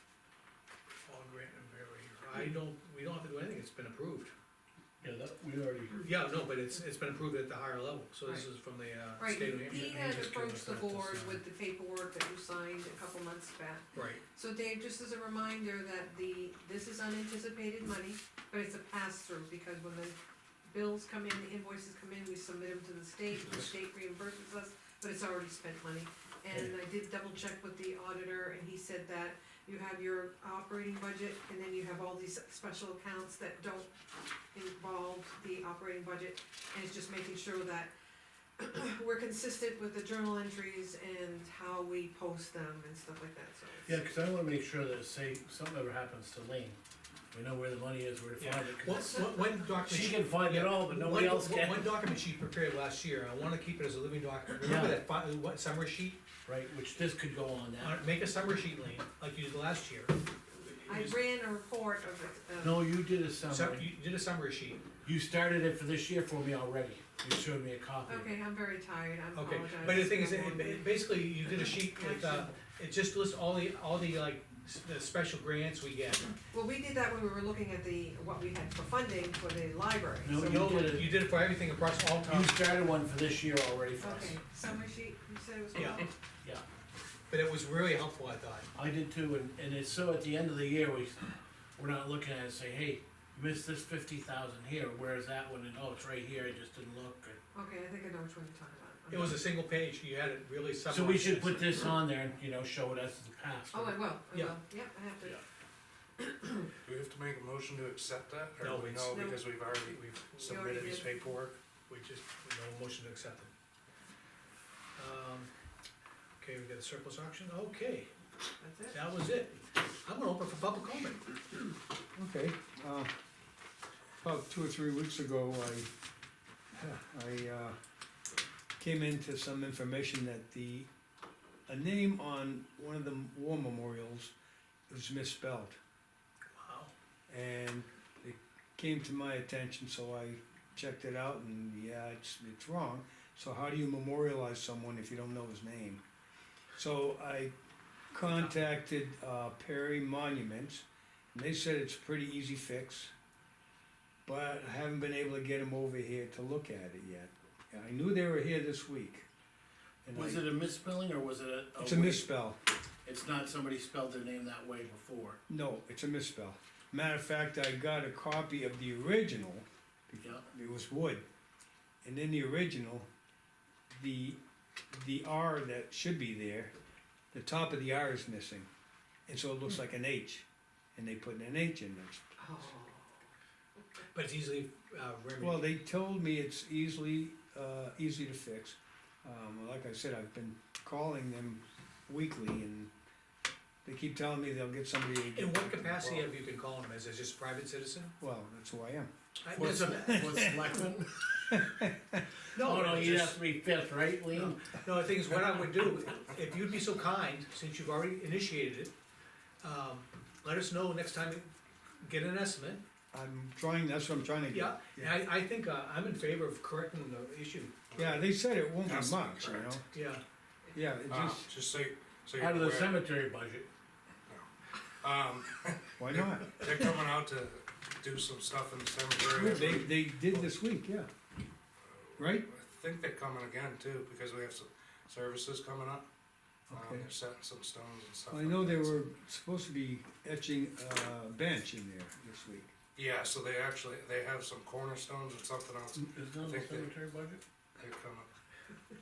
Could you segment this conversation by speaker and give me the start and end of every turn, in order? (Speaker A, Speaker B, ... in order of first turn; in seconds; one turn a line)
Speaker A: 1.0-4.3
Speaker B: 5.0-6.0
Speaker A: 6.0-9.9
Speaker C: 9.2-33.9
Speaker B: 9.6-11.4
Speaker A: 13.9-14.2
Speaker C: 34.5-37.9
Speaker C: 38.6-44.0
Speaker B: 43.9-46.8
Speaker B: 47.3-49.1
Speaker A: 48.4-56.2
Speaker C: 49.0-49.7
Speaker B: 49.8-52.0
Speaker B: 54.6-55.0
Speaker B: 56.5-58.0
Speaker A: 57.8-61.2
Speaker C: 60.9-62.9
Speaker B: 62.6-63.9
Speaker A: 63.5-64.8
Speaker B: 65.0-68.3
Speaker C: 68.1-72.5
Speaker A: 69.3-76.3
Speaker C: 76.5-80.4
Speaker B: 80.2-81.1
Speaker A: 80.4-82.6
Speaker B: 82.2-84.4
Speaker C: 84.0-86.1
Speaker A: 85.8-86.0
Speaker A: 87.3-88.7
Speaker B: 88.8-91.3
Speaker B: 91.8-97.4
Speaker C: 97.5-99.4
Speaker A: 99.1-101.8
Speaker B: 100.9-104.1
Speaker C: 103.7-105.4
Speaker C: 106.2-106.7
Speaker D: 106.8-111.6
Speaker A: 108.6-109.3
Speaker C: 109.1-109.8
Speaker A: 109.8-111.0
Speaker C: 110.4-111.3
Speaker A: 111.9-113.5
Speaker A: 115.0-115.5
Speaker A: 116.4-118.1
Speaker C: 118.6-119.0
Speaker A: 118.9-121.4
Speaker E: 122.2-123.1
Speaker E: 124.2-125.9
Speaker E: 126.7-127.8
Speaker E: 128.8-130.9
Speaker E: 131.7-134.3
Speaker E: 134.9-135.8
Speaker A: 136.5-136.9
Speaker E: 137.3-146.0
Speaker E: 146.8-147.5
Speaker E: 148.1-153.1
Speaker A: 148.3-148.6
Speaker E: 154.2-159.3
Speaker E: 160.0-160.5
Speaker B: 160.1-162.3
Speaker E: 161.8-162.6
Speaker B: 163.1-165.4
Speaker E: 165.5-171.2
Speaker B: 170.2-170.5
Speaker E: 172.0-173.1
Speaker E: 173.9-174.4
Speaker E: 174.9-176.7
Speaker E: 177.3-178.7
Speaker E: 179.3-182.3
Speaker C: 182.4-183.3
Speaker A: 184.1-185.6
Speaker E: 185.4-192.9
Speaker E: 193.8-196.3
Speaker A: 195.3-198.1
Speaker E: 198.2-199.1
Speaker A: 199.4-200.4
Speaker B: 199.5-201.3
Speaker E: 200.1-200.7
Speaker E: 201.5-202.2
Speaker A: 202.5-203.4
Speaker B: 202.6-204.6
Speaker A: 204.3-208.9
Speaker A: 209.6-212.8
Speaker E: 213.1-215.2
Speaker A: 214.5-217.7
Speaker D: 217.9-218.3
Speaker E: 217.9-219.8
Speaker D: 218.8-219.7
Speaker A: 219.9-220.2
Speaker E: 220.7-221.5
Speaker D: 221.1-223.0
Speaker B: 222.4-223.7
Speaker D: 224.3-230.4
Speaker E: 226.0-226.7
Speaker E: 229.3-231.1
Speaker D: 231.9-236.1
Speaker E: 232.2-232.5
Speaker E: 236.7-237.1
Speaker D: 236.7-239.1
Speaker E: 238.3-242.7
Speaker D: 243.0-247.0
Speaker B: 246.0-247.4
Speaker D: 247.8-248.3